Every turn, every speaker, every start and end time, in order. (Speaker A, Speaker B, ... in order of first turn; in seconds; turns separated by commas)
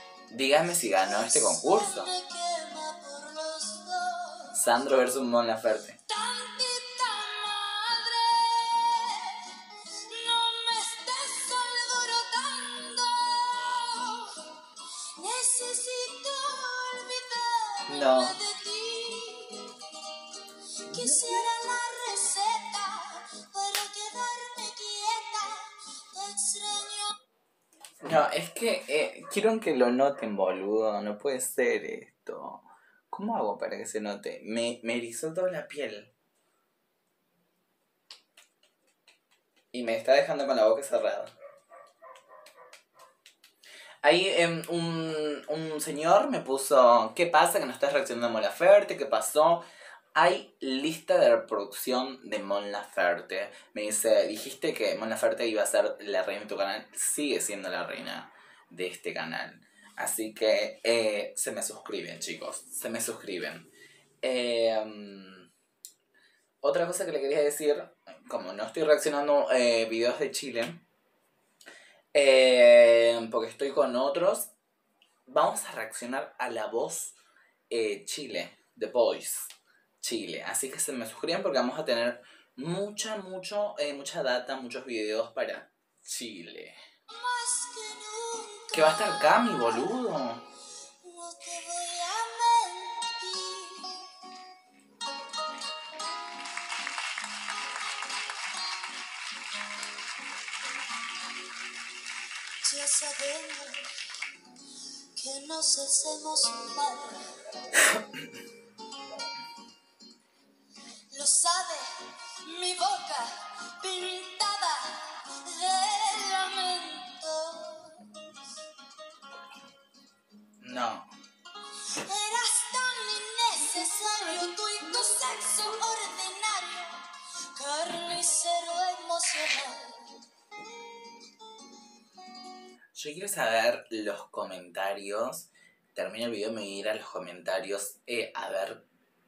Speaker A: 0.3-2.1, Speaker B: 1.0-5.2, Speaker A: 4.5-6.0, Speaker B: 6.1-19.8, Speaker A: 17.9-18.4, Speaker B: 20.9-27.1, Speaker A: 20.9-21.4, Speaker A: 28.0-36.1, Speaker A: 39.7-41.3, Speaker A: 44.0-63.7, Speaker A: 64.2-65.5, Speaker A: 66.6-70.8, Speaker A: 72.1-74.5, Speaker A: 75.3-77.2, Speaker A: 77.7-86.8, Speaker B: 87.1-90.0, Speaker A: 88.7-90.5, Speaker B: 91.0-94.2, Speaker B: 102.6-103.8, Speaker B: 105.2-107.3, Speaker B: 111.1-118.3, Speaker A: 120.6-121.1, Speaker B: 121.9-127.0, Speaker B: 127.5-130.2, Speaker A: 132.9-138.8